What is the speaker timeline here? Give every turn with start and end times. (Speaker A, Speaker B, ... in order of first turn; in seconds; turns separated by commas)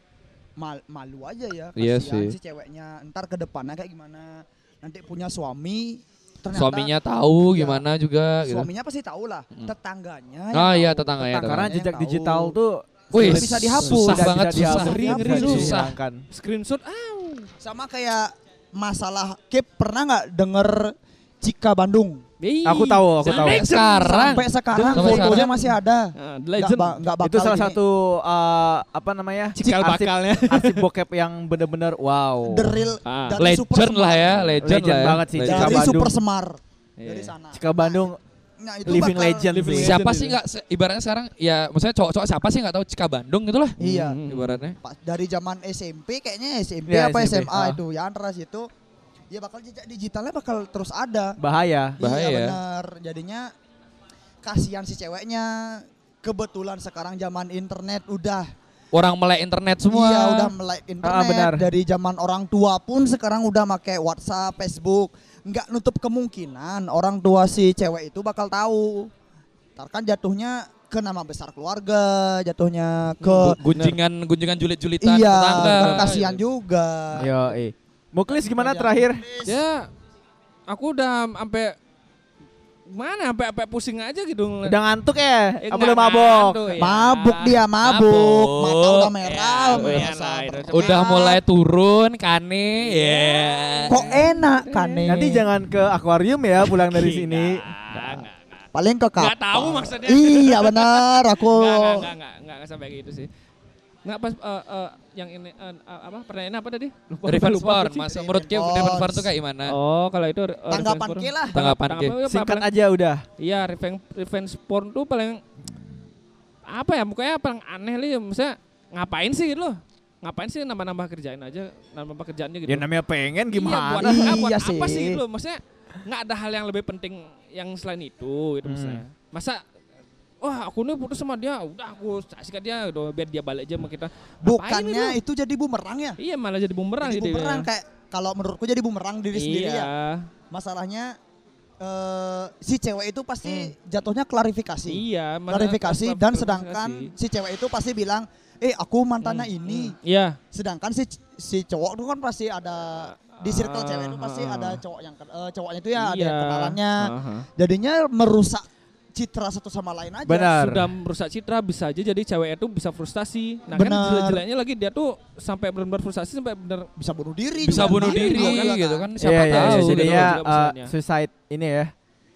Speaker A: 0.6-6.9, Speaker B: 1.8-2.3, Speaker B: 6.5-8.7, Speaker A: 7.5-7.8, Speaker A: 8.4-12.6, Speaker B: 10.5-11.7, Speaker C: 11.3-16.2, Speaker B: 13.1-15.9, Speaker A: 13.1-15.7, Speaker D: 14.7-15.8, Speaker D: 16.3-17.5, Speaker A: 17.6-22.2, Speaker D: 22.4-23.9, Speaker C: 22.6-23.6, Speaker B: 23.2-25.5, Speaker A: 23.4-27.8, Speaker D: 24.7-27.0, Speaker C: 27.2-32.8, Speaker D: 29.6-30.9, Speaker A: 32.5-38.1, Speaker D: 33.0-33.4, Speaker B: 33.4-35.9, Speaker C: 34.6-36.2, Speaker D: 37.0-37.3, Speaker C: 37.5-38.2, Speaker A: 38.6-39.5, Speaker C: 38.8-40.0, Speaker D: 39.5-40.4, Speaker B: 39.7-43.8, Speaker C: 43.8-44.2, Speaker A: 43.8-44.2, Speaker D: 43.9-44.6, Speaker B: 44.3-44.8, Speaker A: 44.8-48.7, Speaker C: 46.9-47.8, Speaker A: 49.3-51.4, Speaker C: 51.4-52.0, Speaker A: 52.0-53.5, Speaker B: 52.0-52.6, Speaker A: 54.4-58.5, Speaker B: 58.9-60.5, Speaker A: 59.9-69.1, Speaker C: 61.0-61.6, Speaker A: 69.8-73.6, Speaker B: 73.3-76.2, Speaker D: 73.7-74.0, Speaker A: 75.0-77.3, Speaker D: 75.6-76.4, Speaker C: 77.2-79.2, Speaker A: 78.3-79.6, Speaker D: 79.4-79.9, Speaker D: 80.7-81.7, Speaker D: 82.9-84.8, Speaker C: 84.6-86.6, Speaker D: 85.6-87.6, Speaker A: 86.8-91.4, Speaker B: 87.8-89.1, Speaker D: 89.2-91.1, Speaker B: 89.7-90.1, Speaker B: 90.7-94.1, Speaker D: 92.8-95.2, Speaker A: 93.9-95.5, Speaker C: 95.1-97.6, Speaker D: 96.7-98.6, Speaker A: 98.7-102.1, Speaker D: 99.2-103.3, Speaker D: 104.0-108.0, Speaker B: 107.2-109.7, Speaker A: 108.0-109.3, Speaker D: 109.7-112.7, Speaker A: 110.7-111.5, Speaker B: 111.5-112.2, Speaker C: 112.2-113.2, Speaker D: 113.4-115.4, Speaker D: 116.7-122.9, Speaker C: 122.7-124.4, Speaker D: 123.5-129.6, Speaker A: 124.0-125.2, Speaker C: 128.6-129.0, Speaker D: 130.4-135.2, Speaker A: 134.4-136.2, Speaker D: 136.2-137.7, Speaker A: 137.0-139.9, Speaker D: 139.3-140.3, Speaker A: 140.5-141.2, Speaker A: 141.8-149.9, Speaker D: 143.4-143.7, Speaker D: 144.9-147.1, Speaker D: 149.2-150.4, Speaker A: 150.5-160.5, Speaker D: 153.3-154.8, Speaker D: 155.9-157.5, Speaker C: 160.2-160.8, Speaker D: 160.5-166.9, Speaker A: 163.7-164.4, Speaker A: 167.0-169.1, Speaker D: 167.6-168.8, Speaker B: 167.6-170.4, Speaker C: 169.2-171.9, Speaker D: 169.3-170.9